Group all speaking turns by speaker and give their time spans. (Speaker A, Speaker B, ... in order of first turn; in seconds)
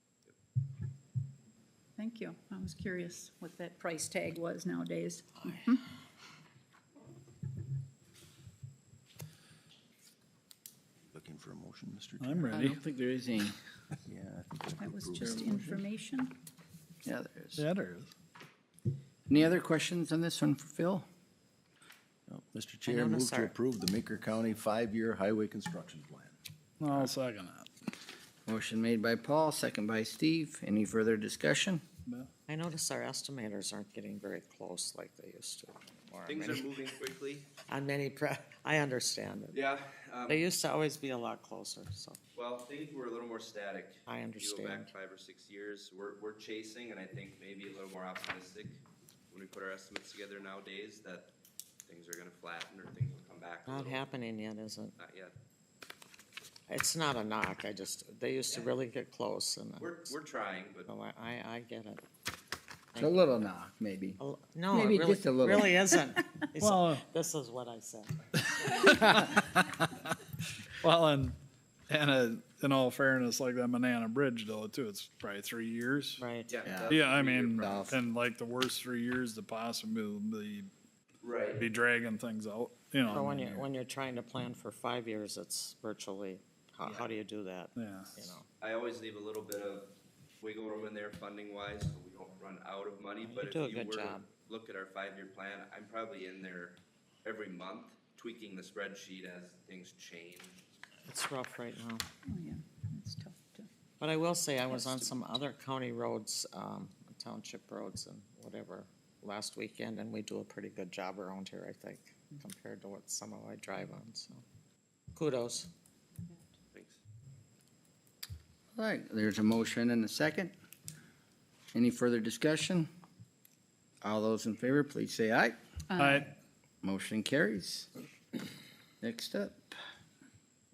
Speaker A: 2.0-5.8, 14.8-16.3, 102.3-103.7, 104.7-105.1, 125.9-126.3
Speaker B: 11.1-12.5, 14.1-15.5, 22.3-26.4
Speaker C: 12.2-12.8, 17.6-18.1, 26.8-27.7, 66.6-67.0, 68.6-70.1, 70.8-71.4, 71.9-76.2, 76.9-80.7, 81.6-83.7, 87.8-88.3, 126.0-126.3
Speaker D: 12.5-13.6, 15.2-15.8, 17.0-17.6, 19.3-21.1, 28.5-31.8, 63.0-64.2, 64.7-65.7, 76.7-76.9, 77.6-78.0, 118.8-120.5, 121.7-122.9, 124.0-125.6, 126.8-127.9, 129.0-129.7
Speaker E: 22.9-23.6, 32.5-36.7, 37.7-39.6, 40.3-42.2, 44.1-44.9, 53.7-55.0, 56.7-60.2, 60.9-62.0, 62.9-63.3, 64.2-68.8, 76.2-76.5, 83.1-88.5, 93.2-94.3, 101.1-102.0, 104.0-114.4, 115.1-115.7
Speaker F: 36.3-37.5, 39.5-40.4, 42.4-51.3, 51.9-54.1, 55.0-55.3, 59.8-60.9, 76.5-78.0, 81.2-81.6, 88.6-100.6, 116.7-117.0